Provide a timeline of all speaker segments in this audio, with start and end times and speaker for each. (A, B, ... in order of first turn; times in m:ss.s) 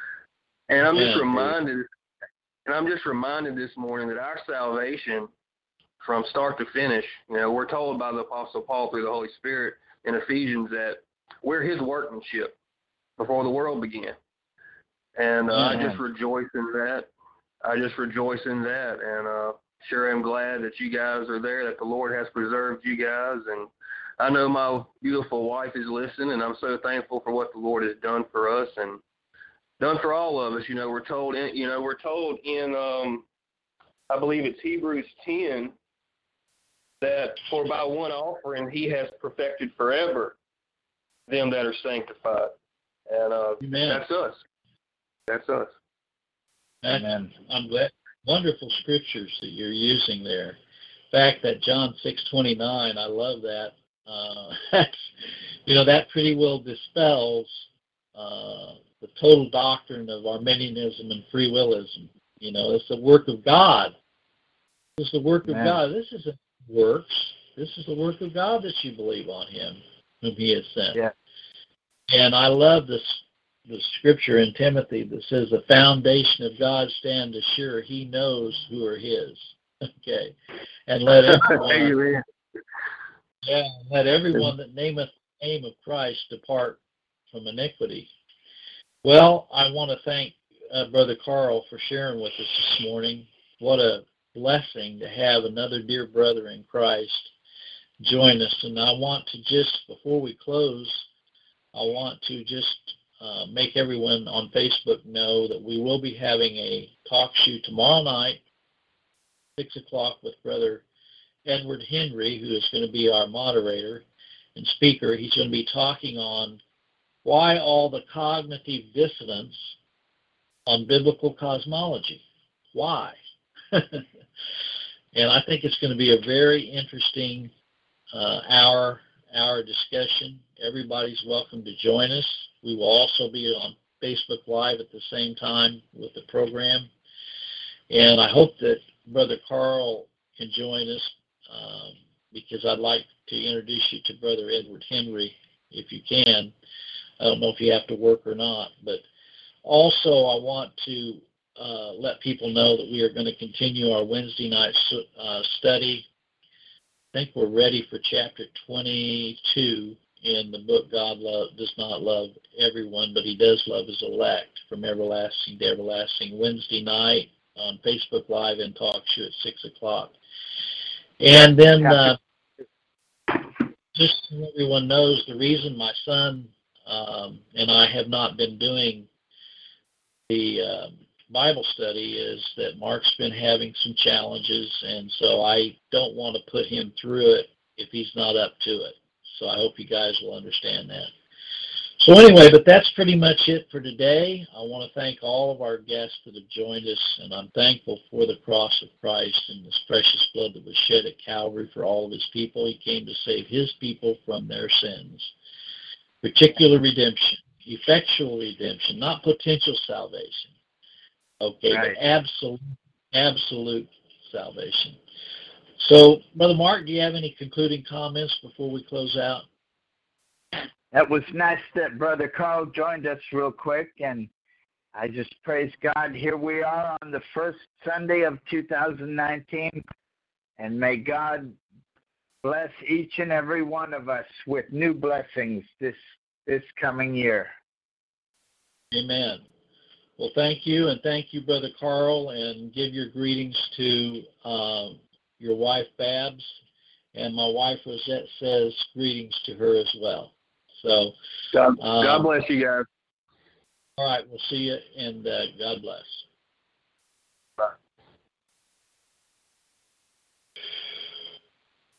0:00.7-0:01.8 A
0:00.8-0:01.6 B
0:02.6-0:05.3 A
0:06.0-0:12.5 A
0:13.2-0:14.2 A
0:15.2-0:17.1 A
0:15.5-0:16.0 C
0:17.6-0:29.0 A
0:29.8-0:33.2 A
0:34.1-0:35.7 A
0:37.0-0:40.3 A
0:41.3-0:42.5 A
0:43.1-0:44.4 A
0:43.6-0:44.1 B
0:45.3-0:45.7 A
0:46.8-0:50.6 B
0:46.9-0:47.3 C
0:51.1-0:55.1 B
0:55.6-1:03.9 B
1:05.0-1:11.0 B
1:05.5-1:05.8 C
1:12.1-1:20.4 B
1:20.9-1:22.0 B
1:21.2-1:22.2 A
1:23.4-1:28.1 B
1:29.0-1:37.3 B
1:38.0-1:41.1 B
1:41.7-1:48.4 B
1:49.6-1:50.8 B
1:51.4-1:54.0 B
1:54.6-1:56.6 B
1:57.2-1:59.8 B
2:00.7-2:03.2 B
2:03.7-2:04.1 B
2:05.1-2:07.5 B
2:08.1-2:16.9 B
2:17.9-2:26.5 B
2:27.2-2:29.0 B
2:29.6-2:36.1 B
2:37.1-2:50.1 B
2:51.2-2:52.2 B
2:53.9-2:59.1 B
3:00.3-3:11.1 B
3:12.0-3:25.3 B
3:26.2-3:30.5 B
3:31.4-3:35.0 B
3:31.7-3:32.0 C
3:35.8-3:39.5 B
3:40.9-3:44.3 C
3:44.9-3:49.8 C
3:50.6-3:51.6 C
3:52.4-3:57.5 C
3:58.9-3:59.4 B
4:00.2-4:06.6 B
4:07.1-4:11.2 B
4:11.5-4:12.8 A
4:11.8-4:12.3 B
4:14.0-4:16.2 B